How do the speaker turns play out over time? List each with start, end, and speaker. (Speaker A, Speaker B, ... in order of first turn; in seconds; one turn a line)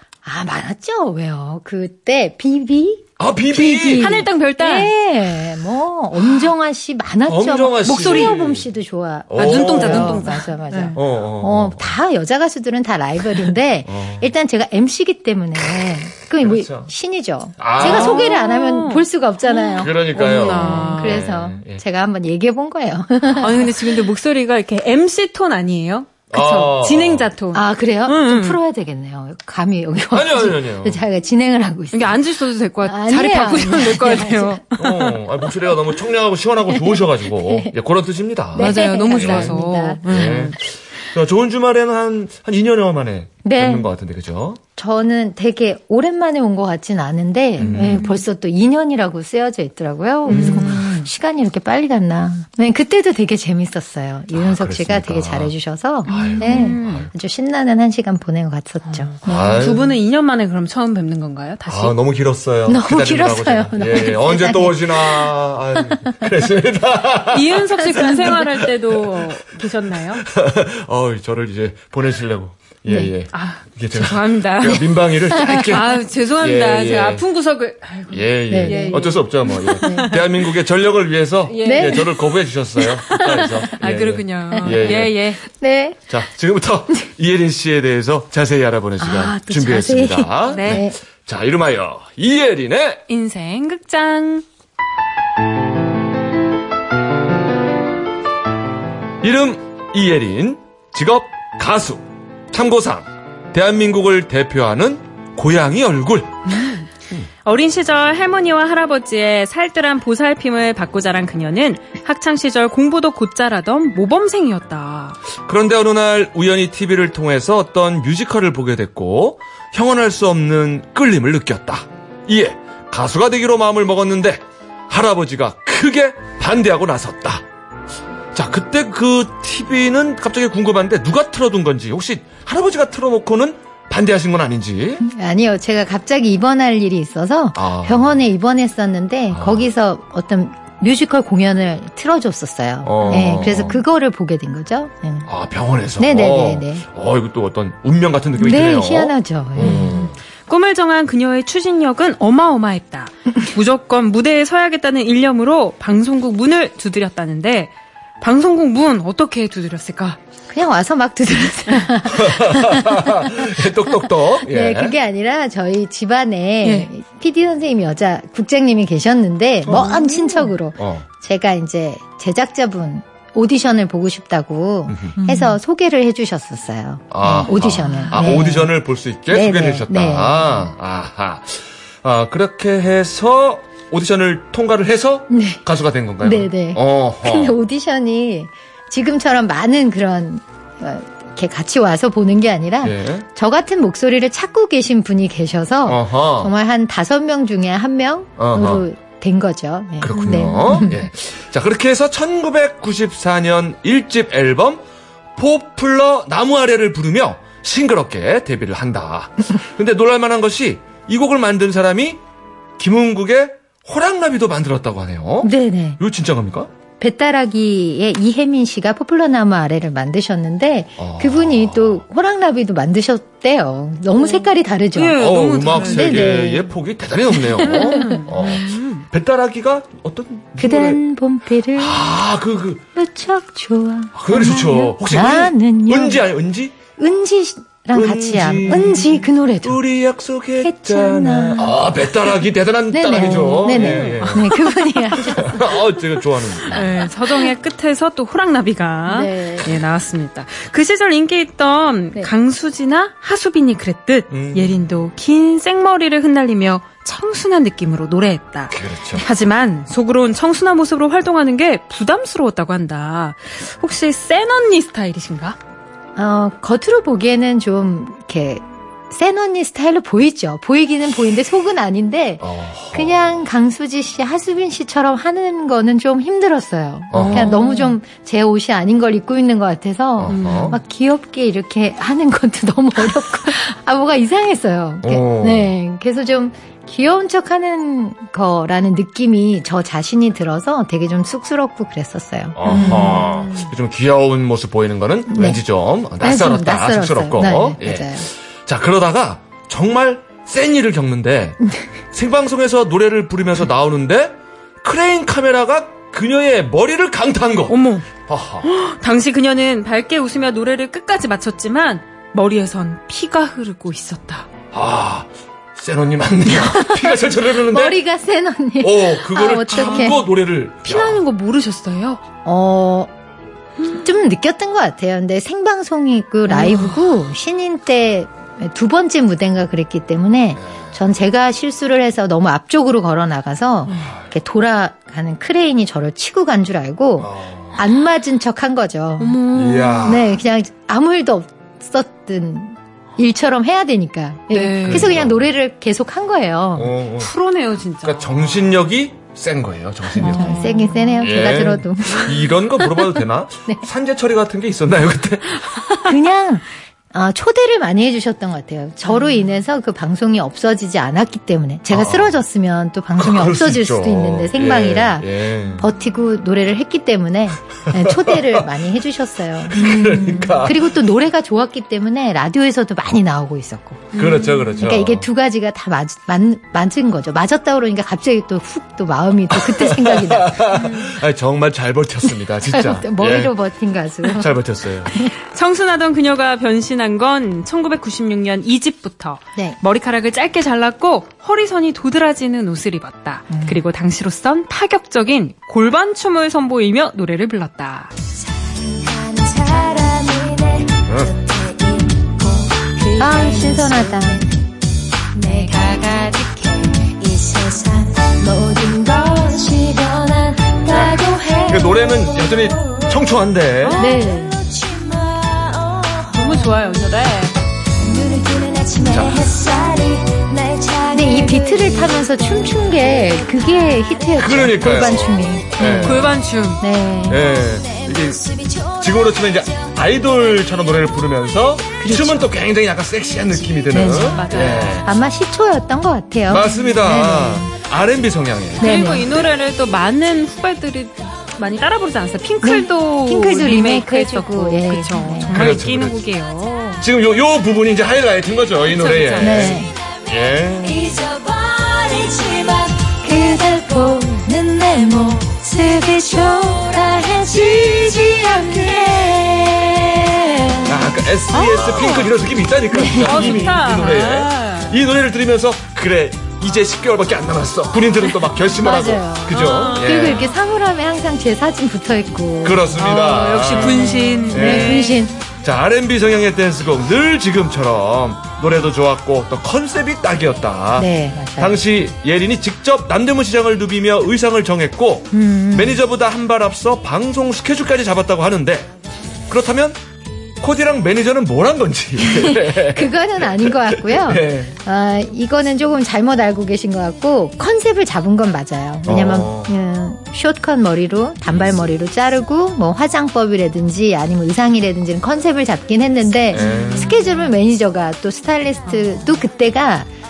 Speaker A: 0.2-23.9
Speaker B: 3.2-4.2
Speaker C: 3.9-4.9
Speaker B: 7.3-8.7
Speaker C: 7.8-8.4
Speaker B: 9.3-10.3
Speaker C: 9.3-11.0
Speaker B: 10.9-12.0
Speaker B: 13.8-14.3
Speaker B: 16.4-16.9
Speaker B: 17.6-18.3
Speaker C: 17.8-21.2
Speaker B: 19.7-21.8
Speaker C: 23.4-28.6
Speaker B: 26.3-27.3
Speaker A: 27.5-32.3
Speaker B: 30.1-31.0
Speaker C: 31.9-35.2
Speaker A: 32.8-34.6
Speaker B: 34.8-39.5
Speaker A: 36.7-37.7
Speaker A: 38.5-40.4
Speaker C: 38.5-40.5
Speaker B: 40.1-44.6
Speaker A: 43.4-43.9
Speaker A: 44.8-59.6
Speaker B: 47.6-48.1
Speaker C: 47.6-48.2
Speaker C: 50.2-51.1
Speaker B: 50.3-50.8
Speaker B: 54.3-55.5
Speaker C: 56.0-57.1
Speaker B: 56.0-57.1
Speaker C: 58.9-62.0
Speaker B: 59.2-59.9
Speaker B: 61.7-69.3
Speaker A: 62.7-66.2
Speaker C: 67.3-70.2
Speaker A: 67.9-68.2
Speaker B: 70.2-77.2
Speaker A: 72.9-73.1
Speaker C: 73.3-80.3
Speaker A: 75.4-75.7
Speaker B: 78.1-85.1
Speaker A: 78.5-79.1
Speaker A: 79.8-80.2
Speaker C: 81.5-82.1
Speaker A: 81.6-82.3
Speaker A: 82.9-83.7
Speaker C: 83.1-85.4
Speaker A: 84.6-86.0
Speaker B: 86.1-93.0
Speaker A: 89.0-91.0
Speaker C: 90.5-90.8
Speaker C: 93.1-94.4
Speaker B: 99.2-106.4
Speaker C: 106.5-106.9
Speaker C: 107.4-115.2
Speaker B: 115.4-127.4
Speaker B: 128.3-135.0
Speaker A: 135.0-145.3
Speaker B: 137.5-138.1
Speaker B: 139.3-139.7
Speaker B: 142.8-143.8
Speaker B: 145.2-150.1
Speaker A: 146.0-146.8
Speaker A: 148.4-150.1
Speaker C: 150.5-160.2
Speaker A: 160.5-178.7
Speaker B: 162.1-164.9
Speaker C: 166.6-166.9
Speaker B: 169.6-170.0
Speaker C: 169.7-170.5
Speaker B: 170.8-171.0
Speaker B: 174.9-175.1
Speaker C: 175.2-175.6
Speaker B: 177.1-187.6
Speaker C: 177.8-178.4
Speaker A: 179.3-180.6
Speaker A: 185.3-185.6
Speaker A: 186.2-201.0
Speaker B: 192.8-193.2
Speaker B: 195.8-196.5
Speaker B: 198.4-198.8
Speaker B: 200.0-204.8
Speaker C: 200.1-200.6
Speaker B: 205.3-212.2
Speaker B: 212.8-216.7
Speaker A: 215.4-216.0
Speaker A: 217.0-226.7
Speaker B: 221.0-222.0
Speaker C: 224.2-226.3
Speaker B: 225.2-231.0
Speaker A: 227.3-228.2
Speaker C: 227.6-229.1
Speaker A: 230.6-232.0
Speaker B: 231.8-232.8
Speaker A: 232.9-236.2
Speaker B: 234.1-236.8
Speaker A: 237.0-239.8
Speaker B: 237.9-247.0
Speaker A: 240.6-241.8
Speaker A: 242.9-245.8
Speaker C: 243.2-244.5
Speaker C: 246.7-265.6
Speaker A: 249.1-249.7
Speaker B: 254.3-254.8
Speaker B: 258.7-259.2
Speaker A: 266.1-293.3
Speaker B: 272.4-273.3
Speaker B: 277.1-277.5
Speaker C: 277.1-277.9
Speaker B: 280.2-280.8
Speaker C: 280.3-280.8
Speaker B: 285.0-285.7
Speaker B: 292.5-301.6
Speaker C: 292.6-293.6
Speaker A: 295.3-295.6
Speaker A: 296.2-298.3
Speaker B: 302.1-308.7
Speaker C: 307.7-308.1
Speaker C: 308.6-314.5
Speaker B: 314.7-318.0
Speaker A: 316.5-320.2
Speaker B: 318.8-321.2
Speaker C: 319.7-320.2
Speaker C: 320.8-322.2
Speaker A: 322.4-323.1
Speaker A: 323.9-339.4
Speaker C: 326.5-327.0
Speaker B: 330.6-330.9
Speaker C: 333.9-334.1
Speaker B: 334.0-334.3
Speaker B: 337.2-337.8
Speaker C: 339.2-340.2
Speaker B: 339.5-340.4
Speaker A: 340.0-346.9
Speaker C: 344.5-345.1
Speaker B: 344.8-345.5
Speaker B: 346.7-347.3
Speaker C: 347.2-348.6
Speaker B: 348.0-350.6
Speaker C: 350.2-351.3
Speaker A: 350.2-352.6
Speaker B: 351.2-355.9
Speaker A: 356.0-374.2
Speaker B: 361.9-362.4
Speaker B: 363.2-365.9
Speaker B: 367.9-368.7
Speaker B: 369.7-370.9
Speaker C: 374.1-374.8
Speaker B: 374.1-375.3
Speaker A: 374.8-380.7
Speaker B: 379.5-383.5
Speaker C: 380.7-381.2
Speaker A: 382.7-384.5
Speaker B: 384.2-385.1
Speaker C: 385.5-398.1
Speaker A: 393.5-393.8
Speaker D: 398.5-404.5
Speaker A: 403.2-404.4
Speaker D: 405.3-413.2
Speaker B: 410.9-414.0
Speaker C: 413.8-414.2
Speaker D: 413.8-416.8
Speaker A: 414.0-414.5
Speaker C: 416.3-417.5
Speaker D: 418.0-425.9
Speaker B: 419.1-419.6
Speaker A: 421.1-427.4
Speaker B: 424.4-426.4
Speaker C: 425.9-426.8
Speaker B: 427.3-428.4
Speaker D: 427.3-430.9
Speaker B: 429.0-435.1
Speaker A: 432.0-432.5
Speaker D: 433.4-433.9
Speaker A: 433.9-437.7
Speaker C: 434.3-435.0
Speaker B: 436.5-439.4
Speaker C: 438.8-447.0
Speaker A: 438.8-439.3
Speaker A: 442.6-445.6
Speaker B: 445.5-446.2
Speaker B: 447.0-451.0
Speaker C: 448.9-449.8
Speaker A: 449.4-449.9
Speaker D: 450.8-461.0
Speaker B: 460.9-470.5
Speaker C: 461.5-462.3
Speaker A: 462.9-463.7
Speaker C: 463.2-465.0
Speaker A: 468.8-473.1
Speaker C: 469.5-470.4
Speaker B: 472.6-488.9
Speaker C: 472.9-475.2
Speaker A: 473.7-475.4
Speaker A: 480.9-481.8
Speaker A: 485.3-486.0
Speaker B: 489.5-490.0
Speaker B: 490.6-494.7
Speaker A: 492.3-510.1
Speaker B: 499.0-499.7
Speaker B: 501.5-501.8
Speaker B: 506.5-507.2
Speaker C: 506.6-507.5